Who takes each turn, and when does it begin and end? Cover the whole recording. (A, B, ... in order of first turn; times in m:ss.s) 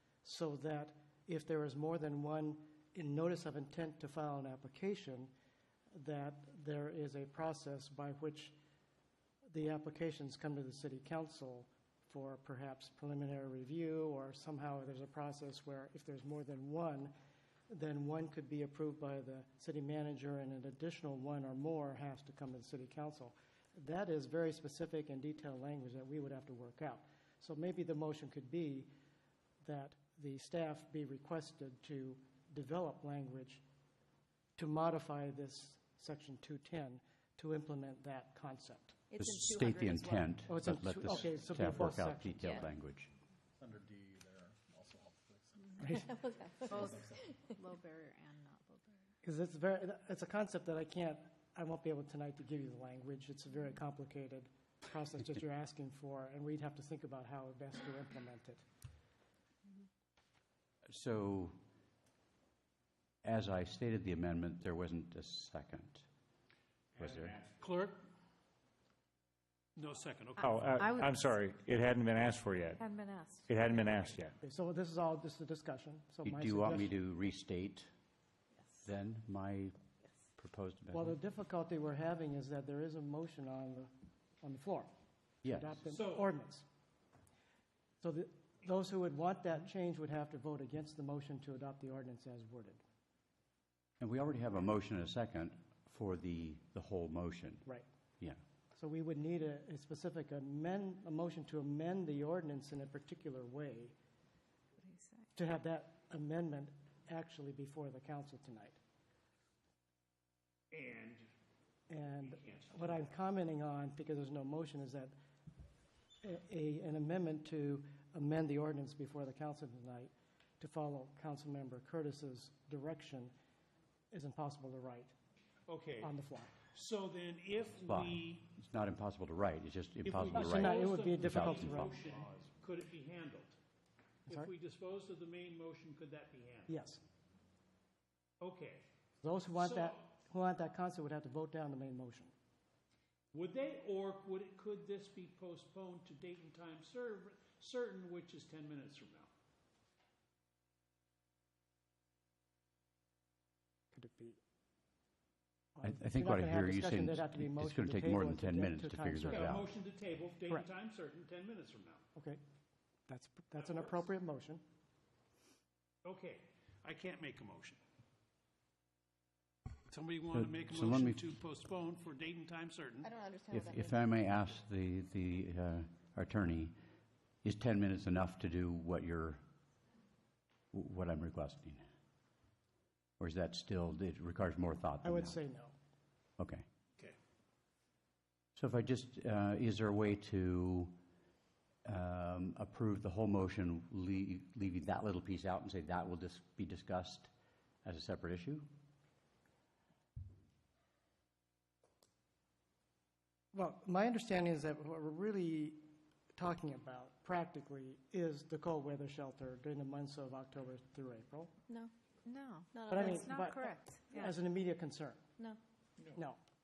0:00.2-0:05.3 A
0:05.9-0:08.6 A
0:09.5-0:17.1 A
0:17.7-0:28.9 A
0:29.6-0:33.6 A
0:34.6-0:39.0 A
0:39.1-0:40.4 B
0:39.2-0:43.1 C
0:40.5-0:42.7 A
0:43.6-0:45.7 D
0:45.8-0:46.1 A
0:45.9-0:47.4 B
0:46.6-0:49.0 E
0:49.2-0:58.6 A
1:00.9-1:01.6 C
1:03.2-1:06.1 C
1:07.0-1:07.4 C
1:07.5-1:08.0 F
1:09.8-1:10.8 F
1:10.4-1:12.8 G
1:10.8-1:11.3 E
1:12.8-1:13.5 E
1:13.4-1:14.4 G
1:14.4-1:16.9 A
1:16.2-1:17.9 C
1:18.8-1:19.7 C
1:20.4-1:21.2 C
1:20.9-1:24.9 A
1:25.4-1:25.8 C
1:25.4-1:26.6 A
1:25.9-1:26.3 F
1:28.0-1:32.8 A
1:34.0-1:37.7 C
1:38.7-1:43.9 A
1:44.8-1:45.3 E
1:45.3-1:48.8 A
1:50.7-1:51.2 F
1:51.9-1:55.1 A
1:52.2-1:53.1 F
1:56.2-2:03.3 A
2:04.1-2:05.1 A
2:05.7-2:08.5 F
2:06.0-2:06.5 A
2:07.8-2:12.0 C
2:10.0-2:13.6 F
2:10.3-2:12.0 A
2:14.3-2:16.8 F
2:16.7-2:17.0 A
2:18.4-2:18.8 F
2:19.2-2:22.3 A
2:19.5-2:20.0 F
2:23.3-2:29.3 F
2:33.9-2:34.4 A
2:35.8-2:39.6 A
2:35.8-2:39.7 C
2:39.3-2:42.0 F
2:42.2-2:42.4 A
2:43.1-2:44.6 A
2:43.6-2:44.0 F
2:46.0-2:47.8 F
2:49.9-2:53.1 F
2:50.3-2:51.2 C
2:53.0-2:54.1 B
2:53.5-2:56.7 C
2:57.4-2:59.4 C
3:00.7-3:01.8 C
3:03.2-3:05.4 C
3:05.0-3:05.7 A
3:06.4-3:06.6 C
3:08.6-3:11.0 C
3:11.8-3:17.3 C
3:17.8-3:18.7 C
3:23.5-3:25.8 A
3:26.3-3:31.5 A
3:32.2-3:34.4 E
3:32.7-3:34.0 B
3:32.9-3:35.2 A
3:36.1-3:36.4 A